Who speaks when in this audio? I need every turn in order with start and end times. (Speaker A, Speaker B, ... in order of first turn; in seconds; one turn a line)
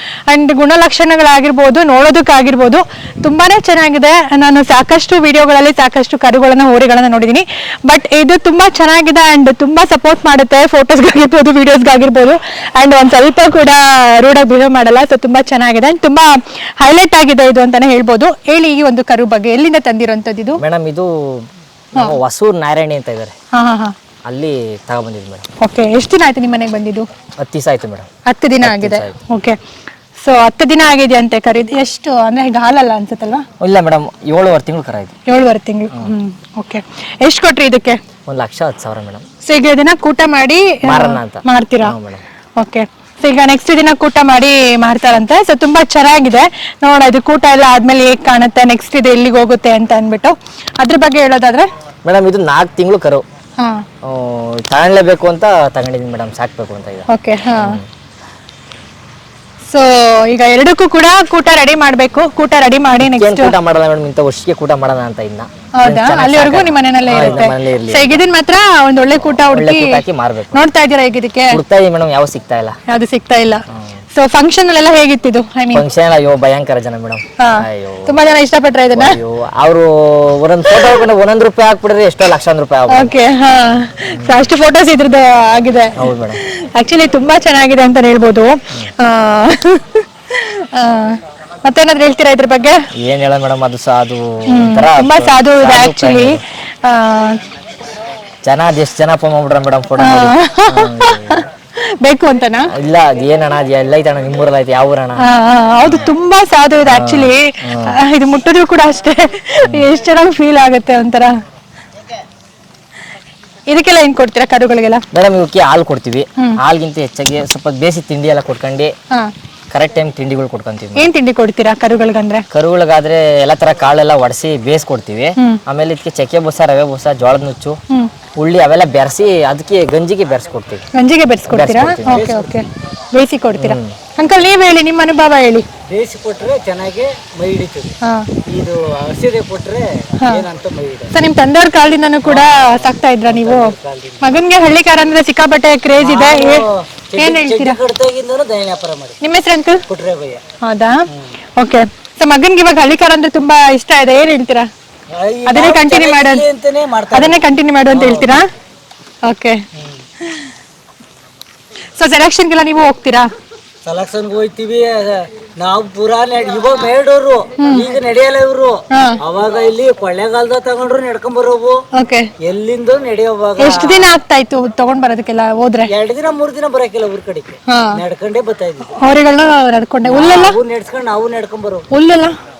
Speaker A: 0.3-20.6
Speaker B: 20.6-23.3
Speaker A: 23.5-23.9
Speaker B: 24.2-25.4
Speaker A: 25.6-27.1
Speaker B: 27.4-28.1
Speaker A: 28.2-29.6
Speaker B: 28.6-29.2
Speaker A: 30.2-33.5
Speaker B: 33.6-35.1
Speaker A: 35.2-38.0
Speaker B: 38.3-39.2
Speaker A: 39.4-42.0
Speaker B: 40.8-42.2
Speaker A: 42.6-51.7
Speaker B: 52.0-53.2
Speaker A: 53.6-53.9
Speaker B: 54.0-57.9
Speaker A: 57.1-57.8
Speaker A: 59.7-63.5
Speaker B: 63.0-68.2
Speaker A: 65.8-70.0
Speaker C: 67.1-67.5
Speaker B: 69.2-70.6
Speaker A: 70.5-71.6
Speaker B: 71.5-72.8
Speaker A: 72.9-73.6
Speaker B: 73.7-74.0
Speaker A: 74.1-75.8
Speaker B: 75.7-78.2
Speaker A: 77.4-79.2
Speaker B: 78.9-83.1
Speaker A: 80.7-81.1
Speaker A: 82.9-92.9
Speaker B: 84.1-84.4
Speaker B: 86.0-86.4
Speaker B: 93.0-96.4
Speaker A: 94.5-97.4
Speaker B: 98.4-101.4
Speaker A: 100.0-101.5
Speaker A: 102.0-102.7
Speaker B: 102.7-105.2
Speaker A: 105.2-111.3
Speaker B: 105.8-106.1
Speaker B: 106.8-108.0
Speaker B: 109.6-109.9
Speaker A: 113.7-115.0
Speaker B: 115.1-118.9
Speaker B: 119.7-121.1
Speaker A: 121.0-122.5
Speaker B: 122.5-127.8
Speaker B: 128.4-130.8
Speaker A: 130.9-135.7
Speaker B: 131.5-132.2
Speaker C: 132.1-132.6
Speaker B: 133.6-133.9
Speaker C: 135.9-137.9
Speaker A: 138.0-138.3
Speaker C: 138.5-141.1
Speaker A: 141.1-146.7
Speaker C: 142.2-144.4
Speaker C: 146.0-149.2
Speaker A: 147.2-147.8
Speaker A: 149.2-149.8
Speaker C: 149.9-150.4
Speaker A: 150.6-151.0
Speaker A: 151.6-154.7
Speaker C: 155.1-158.4
Speaker A: 155.5-156.4
Speaker A: 157.1-158.4
Speaker A: 159.2-159.6
Speaker A: 160.2-160.5
Speaker A: 162.0-163.3
Speaker C: 163.8-171.8
Speaker A: 167.6-167.9
Speaker A: 168.9-169.2
Speaker A: 171.9-172.3
Speaker C: 172.4-174.1
Speaker A: 173.6-175.9
Speaker C: 175.9-179.0
Speaker A: 177.7-178.0
Speaker A: 178.9-180.6
Speaker C: 180.0-181.9
Speaker A: 181.9-182.4